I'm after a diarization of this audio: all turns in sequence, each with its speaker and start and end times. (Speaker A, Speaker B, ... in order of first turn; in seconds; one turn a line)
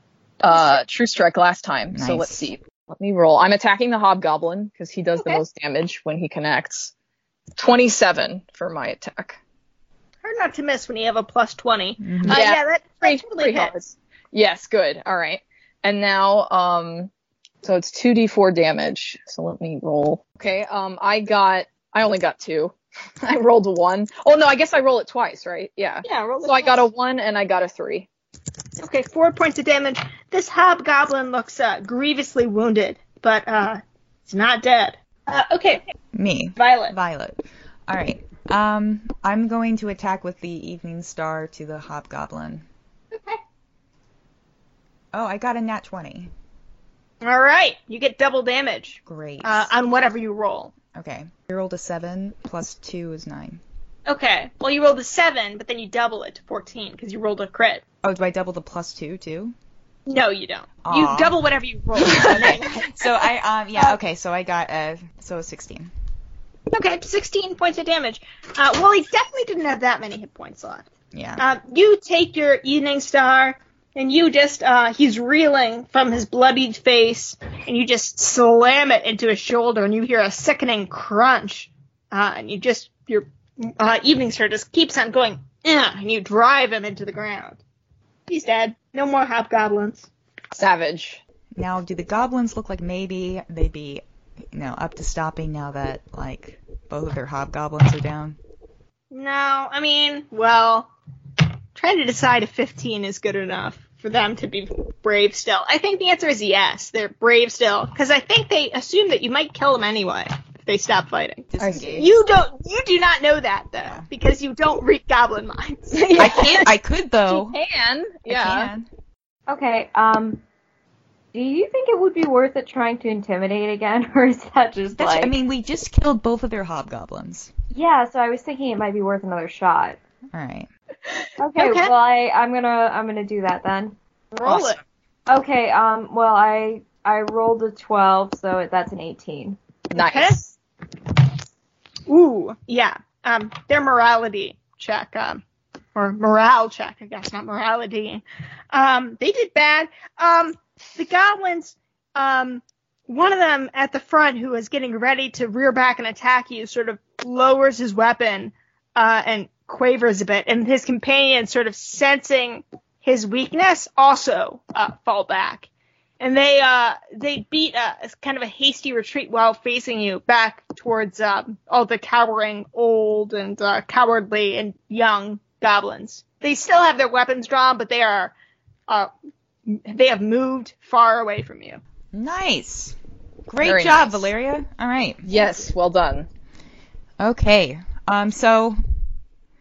Speaker A: 0.4-6.9
Speaker B: 0.5-0.8
Speaker C: 1.9-2.5
Speaker B: 5.2-5.4
Speaker A: 7.6-9.4
Speaker B: 10.2-13.7
Speaker C: 12.0-12.4
Speaker A: 12.3-17.1
Speaker A: 17.6-28.1
Speaker B: 26.0-26.9
Speaker B: 28.8-35.9
Speaker C: 36.1-42.6
Speaker B: 36.6-37.0
Speaker B: 43.1-43.4
Speaker C: 45.1-46.3
Speaker B: 47.2-50.7
Speaker C: 49.0-49.7
Speaker C: 50.9-53.6
Speaker B: 54.1-57.8
Speaker C: 58.0-59.5
Speaker B: 60.1-64.0
Speaker C: 60.8-61.4
Speaker C: 62.0-65.9
Speaker B: 66.7-70.8
Speaker C: 71.1-71.4
Speaker B: 71.4-87.6
Speaker B: 88.3-90.1
Speaker A: 90.5-91.2
Speaker C: 91.6-98.4
Speaker B: 99.1-100.9
Speaker B: 101.7-116.0
Speaker C: 111.5-112.1
Speaker A: 111.6-111.9
Speaker A: 115.9-116.7
Speaker C: 116.2-117.6
Speaker A: 117.3-118.7
Speaker C: 118.3-118.9
Speaker D: 119.5-120.4
Speaker D: 121.3-125.3
Speaker C: 125.0-127.5
Speaker D: 127.7-130.0
Speaker C: 130.3-130.7
Speaker D: 131.4-133.9
Speaker B: 131.6-131.9
Speaker B: 134.3-134.8
Speaker A: 134.4-134.7
Speaker D: 135.3-139.6
Speaker A: 139.9-140.4
Speaker B: 139.9-140.5
Speaker B: 142.1-145.4
Speaker B: 145.9-165.7
Speaker B: 166.2-178.3
Speaker B: 179.7-181.8
Speaker C: 182.1-182.9
Speaker C: 183.5-185.2
Speaker A: 183.6-184.3
Speaker A: 185.2-186.3
Speaker C: 187.2-188.8